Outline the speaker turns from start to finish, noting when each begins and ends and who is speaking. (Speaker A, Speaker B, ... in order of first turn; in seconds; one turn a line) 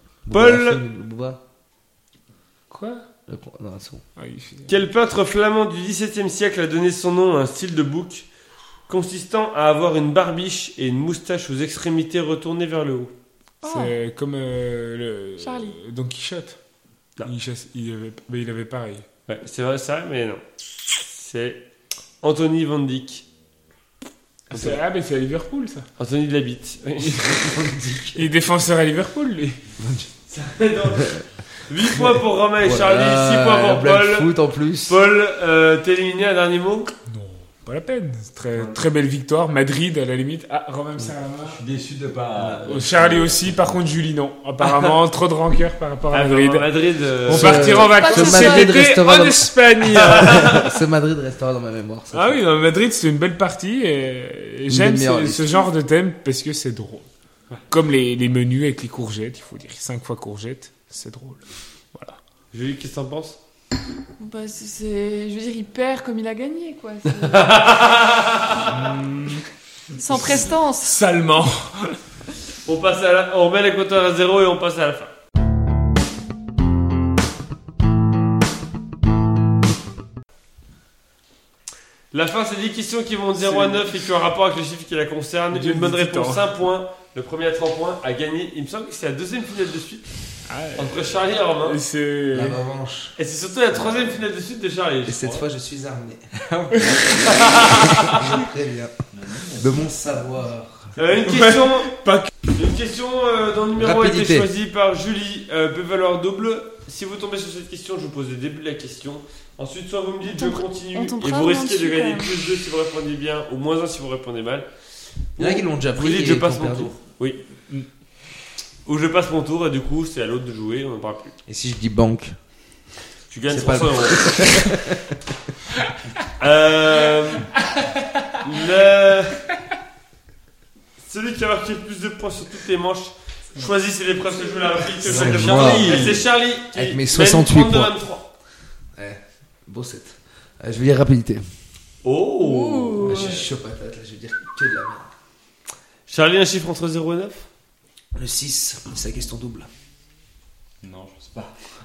Speaker A: 0.3-1.4
Speaker B: 0.3-0.8
Speaker C: 2.7-3.0
Speaker A: 3.3-4.0
Speaker C: 4.2-4.7
Speaker B: 4.7-8.3
Speaker B: 8.9-13.1
Speaker D: 13.6-13.9
Speaker C: 13.7-16.6
Speaker D: 15.4-15.8
Speaker C: 17.2-19.1
Speaker B: 19.3-21.6
Speaker B: 22.2-23.2
Speaker C: 24.5-25.9
Speaker B: 24.5-24.8
Speaker B: 26.0-27.8
Speaker A: 27.2-28.2
Speaker C: 28.1-29.6
Speaker A: 29.8-30.1
Speaker B: 30.3-34.3
Speaker A: 32.1-35.0
Speaker B: 34.9-36.9
Speaker C: 37.1-41.6
Speaker E: 38.5-38.9
Speaker E: 41.0-43.7
Speaker A: 42.4-42.7
Speaker C: 42.6-46.7
Speaker B: 46.1-48.1
Speaker C: 47.3-50.7
Speaker A: 47.3-52.4
Speaker D: 47.8-48.7
Speaker C: 52.1-57.1
Speaker A: 54.7-55.7
Speaker C: 57.7-61.4
Speaker B: 62.5-63.4
Speaker D: 64.2-67.6
Speaker B: 67.2-68.8
Speaker C: 68.6-69.4
Speaker D: 70.0-71.0
Speaker C: 70.0-72.0
Speaker B: 72.7-75.1
Speaker B: 82.1-90.1
Speaker C: 83.4-83.8
Speaker C: 85.5-86.5
Speaker C: 90.5-92.6
Speaker B: 90.8-91.8
Speaker A: 92.3-93.2
Speaker B: 93.2-95.4
Speaker A: 95.0-97.0
Speaker E: 96.7-97.5
Speaker C: 96.7-97.0
Speaker B: 97.1-98.3
Speaker A: 97.7-98.9
Speaker E: 99.1-99.9
Speaker A: 99.6-100.9
Speaker B: 101.0-114.7
Speaker C: 101.3-102.3
Speaker A: 103.8-104.5
Speaker D: 110.3-112.4
Speaker B: 115.3-117.4
Speaker A: 115.4-116.9
Speaker B: 118.8-121.3
Speaker A: 121.5-122.4
Speaker B: 123.3-124.4
Speaker A: 123.5-125.2
Speaker B: 126.4-127.5
Speaker C: 128.0-128.2
Speaker B: 128.4-129.4
Speaker B: 131.0-138.3
Speaker E: 135.0-136.3
Speaker A: 135.1-136.2
Speaker A: 136.7-137.9
Speaker A: 138.9-141.4
Speaker B: 142.0-143.4
Speaker D: 142.4-143.4
Speaker A: 143.0-145.1
Speaker B: 146.1-147.5
Speaker A: 148.2-149.7
Speaker E: 150.8-151.6